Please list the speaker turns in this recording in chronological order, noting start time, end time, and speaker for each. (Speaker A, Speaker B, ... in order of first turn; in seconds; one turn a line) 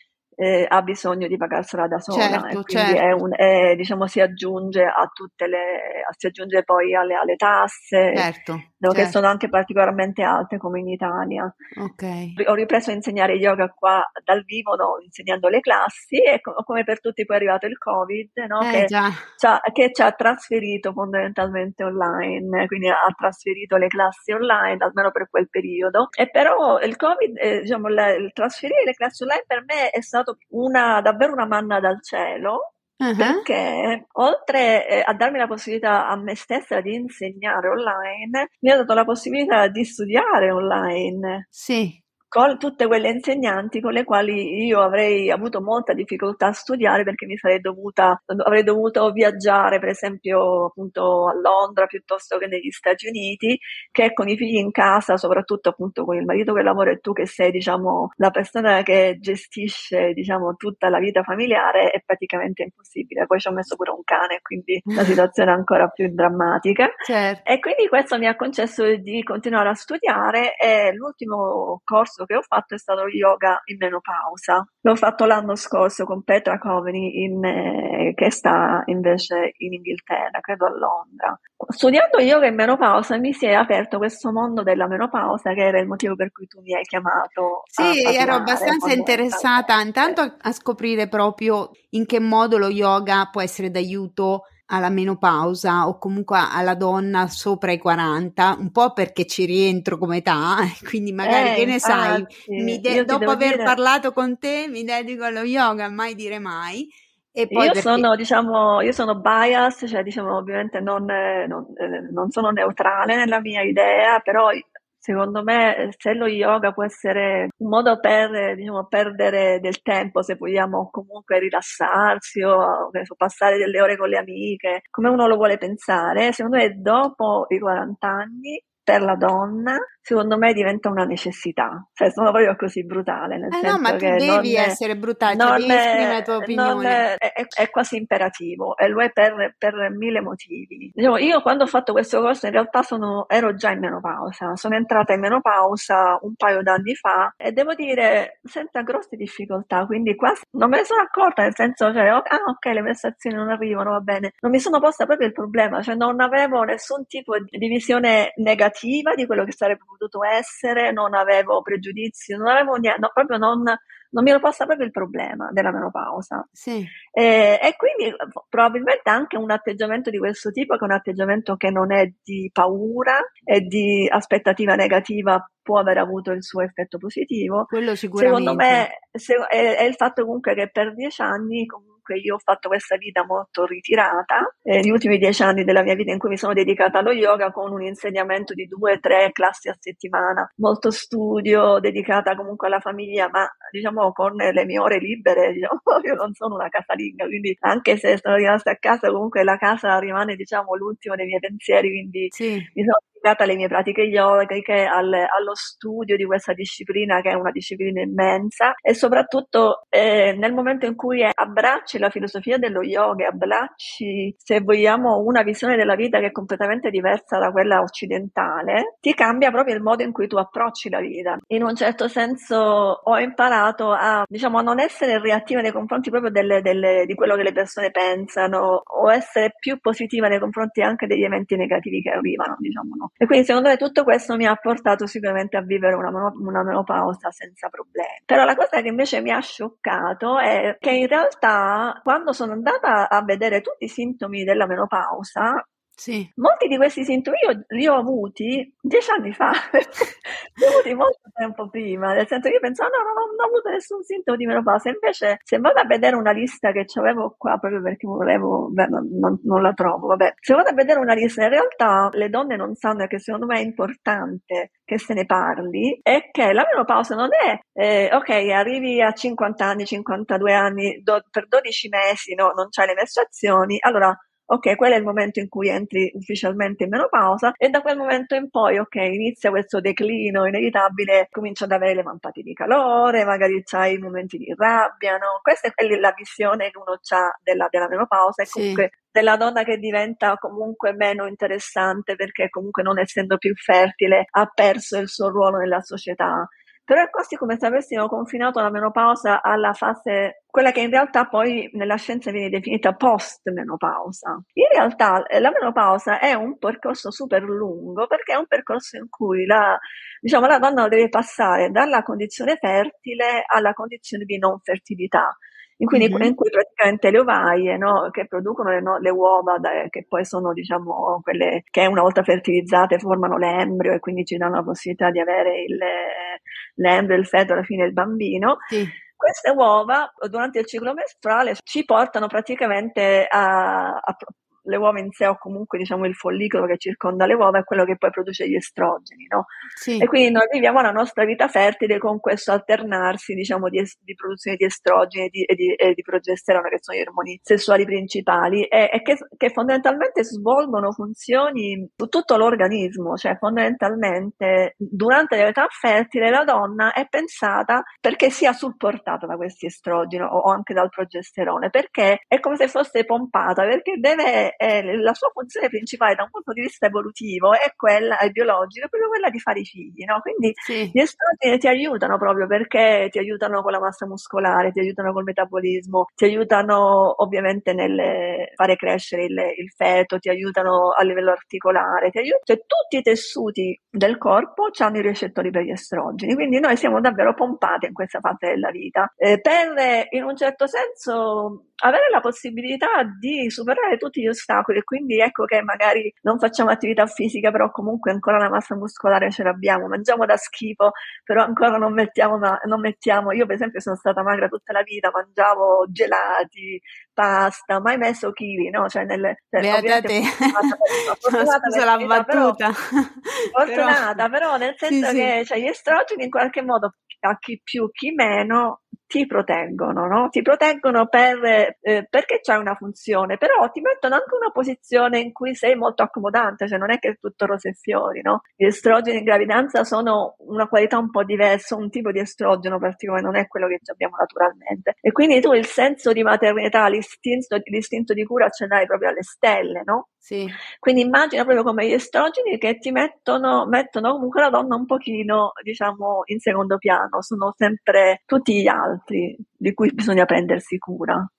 Speaker A: 0.4-8.2
Speaker B: 2.1-3.1
Speaker B: 8.1-9.2
Speaker A: 8.8-11.5
Speaker B: 11.8-12.4
Speaker A: 12.4-32.6
Speaker B: 18.6-19.2
Speaker B: 33.0-33.4
Speaker A: 33.2-41.5
Speaker B: 41.5-42.0
Speaker A: 42.3-66.9
Speaker B: 67.0-67.4
Speaker A: 67.4-90.2
Speaker B: 87.7-108.1
Speaker A: 101.2-103.8
Speaker A: 107.5-166.5
Speaker B: 133.5-137.0
Speaker B: 166.6-166.9
Speaker A: 167.1-245.6
Speaker B: 177.7-178.9
Speaker B: 202.3-202.7
Speaker B: 246.0-246.3
Speaker A: 246.4-339.5
Speaker B: 288.5-288.8
Speaker B: 315.9-316.3
Speaker B: 328.7-328.9
Speaker B: 339.8-340.1
Speaker A: 340.0-412.6
Speaker B: 370.6-370.9
Speaker B: 409.6-414.2
Speaker A: 413.5-440.1
Speaker B: 414.9-415.3
Speaker B: 440.2-440.6
Speaker A: 440.8-451.3